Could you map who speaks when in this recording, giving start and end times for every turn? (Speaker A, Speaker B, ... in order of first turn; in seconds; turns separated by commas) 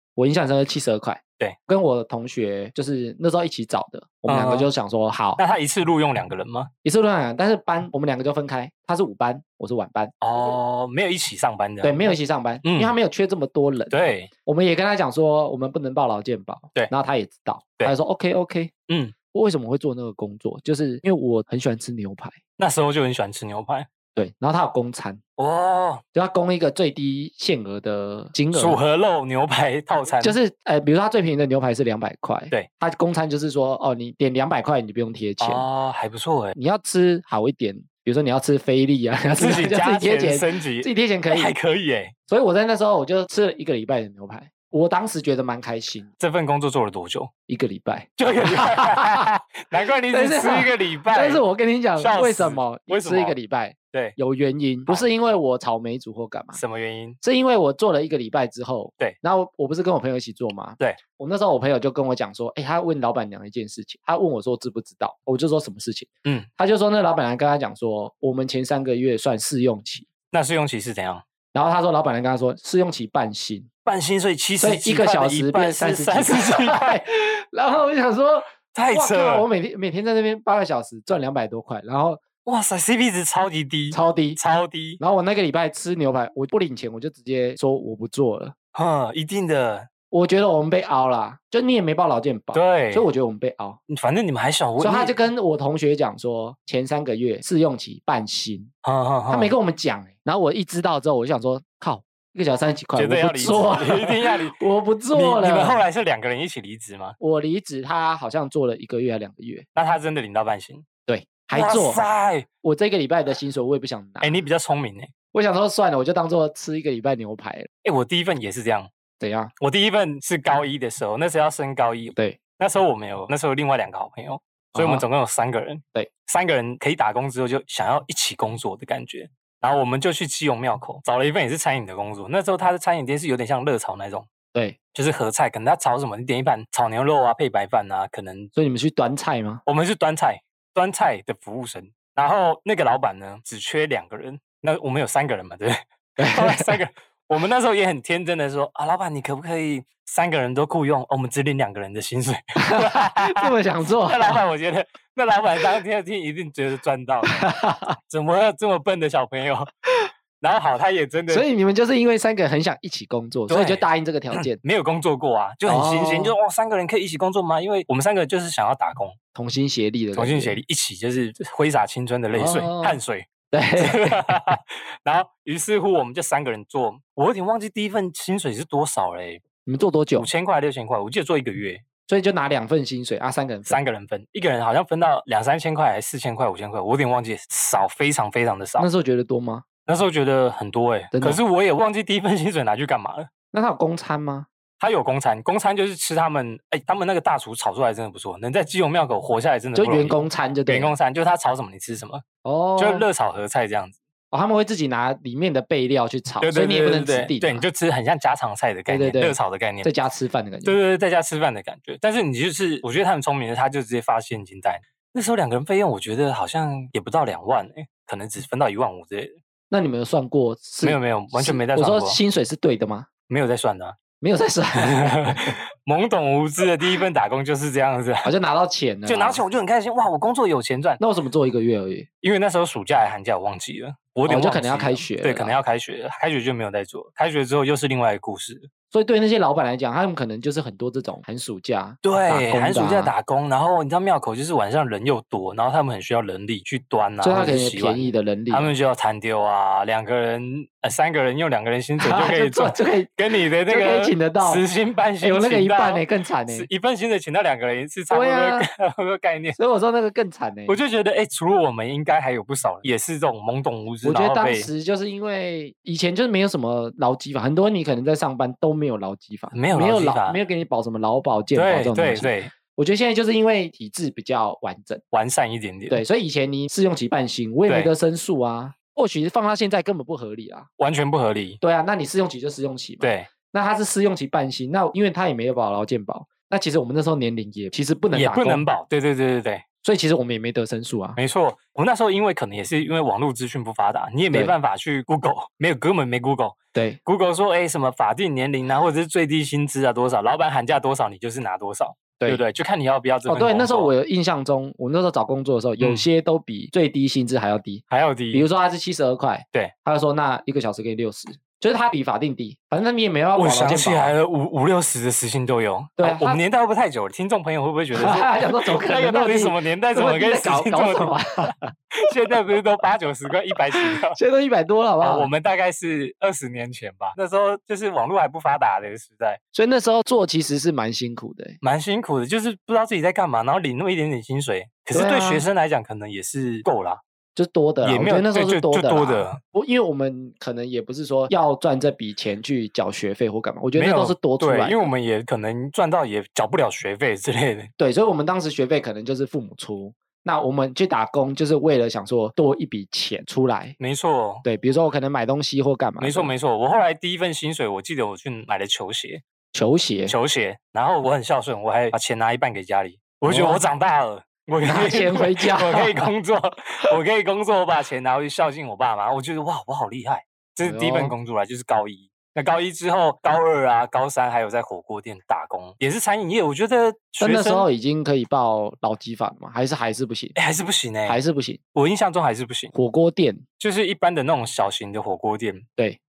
Speaker A: 0.2-5.4, Speaker B: 4.3-4.7, Speaker B: 5.4-6.7, Speaker A: 6.8-10.1, Speaker B: 10.2-12.9, Speaker A: 11.8-18.7, Speaker B: 13.9-14.3, Speaker B: 18.9-19.1, Speaker A: 19.3-22.4, Speaker B: 22.6-23.9, Speaker A: 24.1-25.2, Speaker B: 25.4-26.0, Speaker A: 26.1-28.8, Speaker B: 28.5-30.4, Speaker A: 30.2-35.6, Speaker B: 35.4-36.6, Speaker A: 36.5-41.5, Speaker B: 39.4-42.1, Speaker A: 42.3-46.1, Speaker B: 46.2-47.3, Speaker A: 47.5-49.3, Speaker B: 48.2-51.4, Speaker A: 50.1-56.6, Speaker B: 52.0-53.4, Speaker B: 56.5-57.2, Speaker A: 57.2-70.1, Speaker B: 70.3-71.2, Speaker A: 71.5-73.7, Speaker B: 73.8-77.0, Speaker A: 74.6-82.2, Speaker B: 78.7-79.5, Speaker B: 82.5-85.0, Speaker A: 83.9-84.4, Speaker A: 85.0-88.5, Speaker B: 88.7-89.9, Speaker A: 90.1-93.8, Speaker B: 92.5-93.1, Speaker B: 93.9-95.2, Speaker A: 94.8-98.7, Speaker B: 98.8-99.5, Speaker A: 99.3-105.8, Speaker B: 103.0-104.6, Speaker B: 105.1-107.2, Speaker A: 107.2-109.7, Speaker B: 109.8-110.9, Speaker A: 111.1-112.0, Speaker B: 111.5-112.5, Speaker A: 112.6-114.4, Speaker B: 114.2-115.1, Speaker A: 115.3-117.7, Speaker B: 117.8-118.9, Speaker A: 119.2-119.5, Speaker B: 119.6-134.3, Speaker A: 124.7-125.0, Speaker B: 134.9-138.5, Speaker A: 138.6-139.6, Speaker B: 139.7-157.4, Speaker A: 146.2-146.8, Speaker A: 152.6-154.4, Speaker A: 157.3-158.0, Speaker B: 158.1-159.7, Speaker B: 160.4-161.4, Speaker A: 161.3-164.6, Speaker B: 163.5-169.2, Speaker A: 165.7-166.3, Speaker A: 169.3-170.6, Speaker B: 170.2-179.4, Speaker A: 172.3-173.0, Speaker A: 173.5-174.2, Speaker A: 179.7-180.3, Speaker B: 180.2-181.8, Speaker A: 182.1-183.8, Speaker B: 183.7-188.9, Speaker A: 188.8-189.7, Speaker B: 189.9-193.3, Speaker A: 191.1-191.4, Speaker A: 193.5-194.5, Speaker B: 194.8-202.2, Speaker A: 199.8-200.9, Speaker A: 202.4-203.1, Speaker B: 202.8-204.0, Speaker A: 204.3-207.7, Speaker B: 206.4-209.9, Speaker A: 208.9-210.8, Speaker B: 210.7-219.4, Speaker A: 219.7-223.1, Speaker B: 220.8-222.2, Speaker B: 223.3-224.0, Speaker A: 224.2-225.6, Speaker B: 224.8-228.3, Speaker A: 228.2-229.4, Speaker B: 229.1-231.0, Speaker A: 231.0-232.1, Speaker B: 232.2-238.7, Speaker A: 234.3-235.6, Speaker A: 238.9-243.1, Speaker B: 242.0-259.6, Speaker A: 247.2-248.7, Speaker A: 252.0-254.6, Speaker A: 255.2-256.7, Speaker A: 258.1-258.7, Speaker A: 259.6-260.8, Speaker B: 260.7-264.7, Speaker A: 264.0-275.0, Speaker B: 269.5-270.4, Speaker B: 271.6-272.5, Speaker B: 275.1-276.1, Speaker A: 275.9-280.7, Speaker B: 280.8-281.6, Speaker A: 281.6-288.6, Speaker B: 283.0-283.3, Speaker B: 288.1-289.6, Speaker A: 289.8-291.2, Speaker B: 291.2-303.9, Speaker A: 303.3-314.1, Speaker B: 305.8-306.1, Speaker B: 307.9-308.5, Speaker B: 313.4-321.2, Speaker A: 316.0-316.4, Speaker A: 317.9-321.7, Speaker B: 322.0-324.2, Speaker A: 323.8-325.3, Speaker B: 325.0-329.4, Speaker A: 329.5-331.6, Speaker B: 331.6-337.0, Speaker A: 334.9-335.5, Speaker A: 337.4-344.9, Speaker B: 337.8-339.4, Speaker B: 343.8-347.7, Speaker A: 347.8-353.8, Speaker B: 353.8-354.4, Speaker A: 354.4-356.3, Speaker B: 356.0-359.2, Speaker A: 359.5-360.1, Speaker B: 360.1-377.7, Speaker A: 363.3-363.6, Speaker A: 364.6-366.1, Speaker A: 370.6-371.2, Speaker A: 377.2-380.4, Speaker B: 380.4-381.2, Speaker A: 381.1-381.6, Speaker B: 381.7-382.7, Speaker A: 382.7-383.4, Speaker B: 383.6-385.7